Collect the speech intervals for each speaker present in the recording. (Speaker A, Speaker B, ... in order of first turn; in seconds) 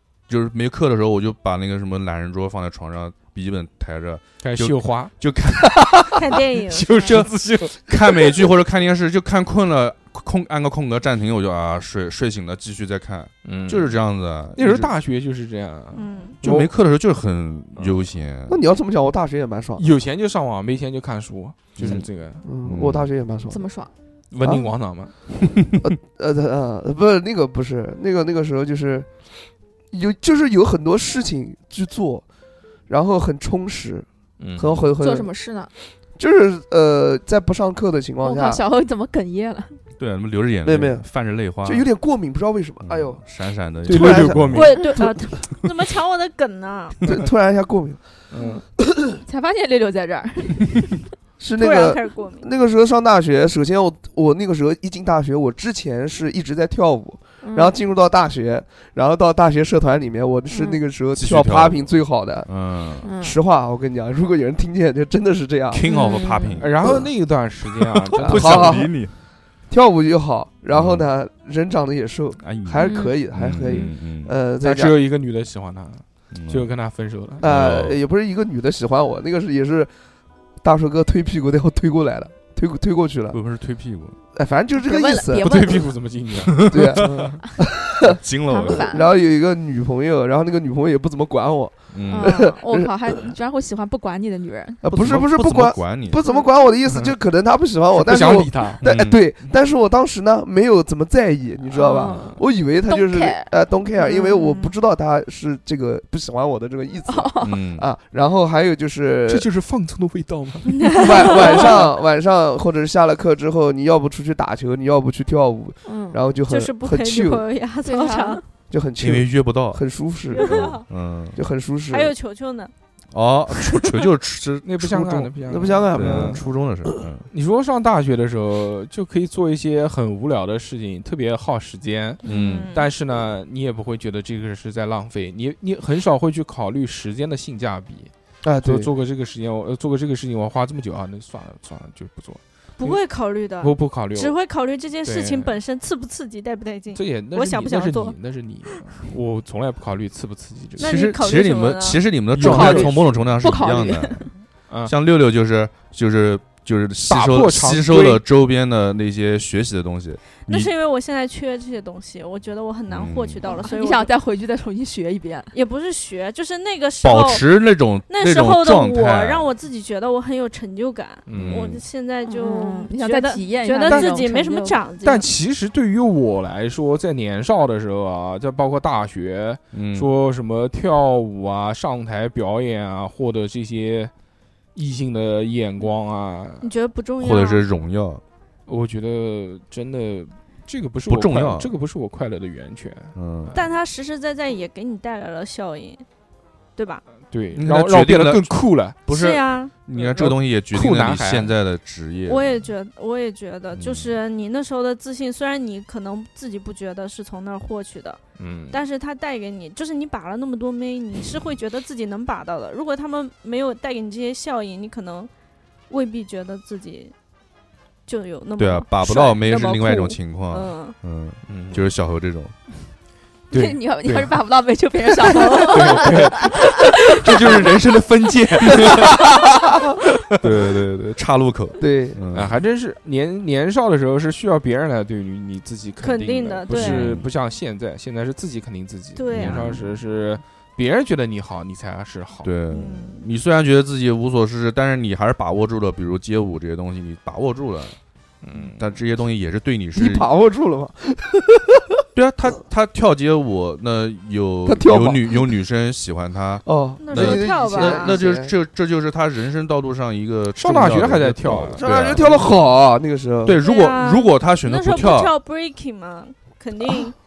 Speaker A: 0.3-6.4, 6.9-14.9, 16.4-18.6, 21.8-22.1, 22.6-23.1, 40.0-41.9, 42.8-44.7, 61.1-61.9, 62.5-63.1, 65.7-67.0, 67.8-69.1, 70.7-71.1, 72.4-74.3, 76.3-76.7, 77.4-78.0, 83.3-84.2, 86.5-87.1, 88.1-88.8, 91.9-92.4, 94.9-96.2, 98.8-99.2, 107.4-107.9, 119.0-119.8, 120.4-121.4, 123.1-125.1, 125.9-127.3, 132.2-132.7, 150.8-154.3, 154.8-160.7, 162.9-163.4, 167.0-169.5, 171.3-171.8, 179.7-180.1, 187.2-188.2, 191.1-191.7, 193.1-193.5, 197.6-202.5, 203.8-204.1, 218.6-222.6, 230.4-232.6, 236.7-237.3, 239.3-239.8, 242.4-248.0, 248.8-250.3, 252.1-262.7, 263.4-265.3
Speaker B: 4.4-5.1, 5.7-6.0, 6.6-8.5, 13.4-14.0, 14.6-16.7, 17.8-18.1, 19.8-22.5, 24.3-25.2, 34.4-34.9, 43.8-44.7, 48.3-48.6, 66.6-68.9, 74.6-77.4, 85.4-87.3, 96.8-97.1, 97.9-98.8, 101.8-102.4, 109.3-111.6, 124.6-126.5, 127.3-143.0, 143.6-144.3, 145.0-145.6, 146.9-151.1, 152.3-153.0, 154.7-154.9, 157.0-158.2, 171.3-171.8, 173.8-174.2, 175.0-184.1, 184.7-186.7, 188.7-193.6, 197.2-199.0, 199.9-201.5, 208.4-208.8, 221.4-221.9, 223.5-224.4, 225.2-229.4, 232.3-242.5, 248.4-248.9, 260.6-262.5
Speaker C: 6.1-7.2, 15.9-16.4, 44.5-47.0, 51.6-52.5, 72.8-73.1, 104.4-104.7, 110.8-111.8, 116.5-118.4, 120.3-120.8, 121.9-122.7, 132.2-132.9, 142.8-148.8, 150.8-152.0, 160.5-164.1, 165.5-175.3, 186.6-187.6, 193.5-196.1, 196.8-197.0, 199.1-199.7, 202.2-215.3, 215.9-217.1, 218.1-220.9, 225.2-226.3, 236.0-237.2, 239.2-239.8, 242.7-243.2, 257.0-258.2, 263.6-267.1
Speaker D: 18.5-19.8, 22.4-23.7, 24.4-24.7, 25.8-29.2, 29.9-32.2, 32.9-35.3, 36.2-38.6, 40.6-41.0, 41.6-43.2, 43.9-45.3, 47.0-48.0, 51.4-62.5, 63.0-65.8, 66.8-67.1, 68.2-69.0, 69.7-74.9, 77.4-79.9, 80.6-83.4, 84.3-85.7, 86.7-93.1, 94.8-109.5, 111.0-117.4, 118.7-120.8, 121.3-122.1, 124.8-126.5, 138.4-138.9, 231.8-232.2, 249.9-252.0, 254.6-255.5, 256.6-258.6, 261.7-263.6
Speaker E: 23.5-23.9, 35.0-35.7, 38.2-39.8, 44.7-45.0, 49.2-51.0, 57.4-57.8, 60.5-60.8, 63.0-63.4, 65.9-66.6, 72.8-73.1, 84.8-85.9, 88.5-89.1, 92.1-94.8, 101.7-104.4, 107.1-107.7, 115.8-116.2, 117.8-118.4, 152.4-152.8, 153.4-154.3, 163.4-165.5, 172.2-174.8, 223.5-227.2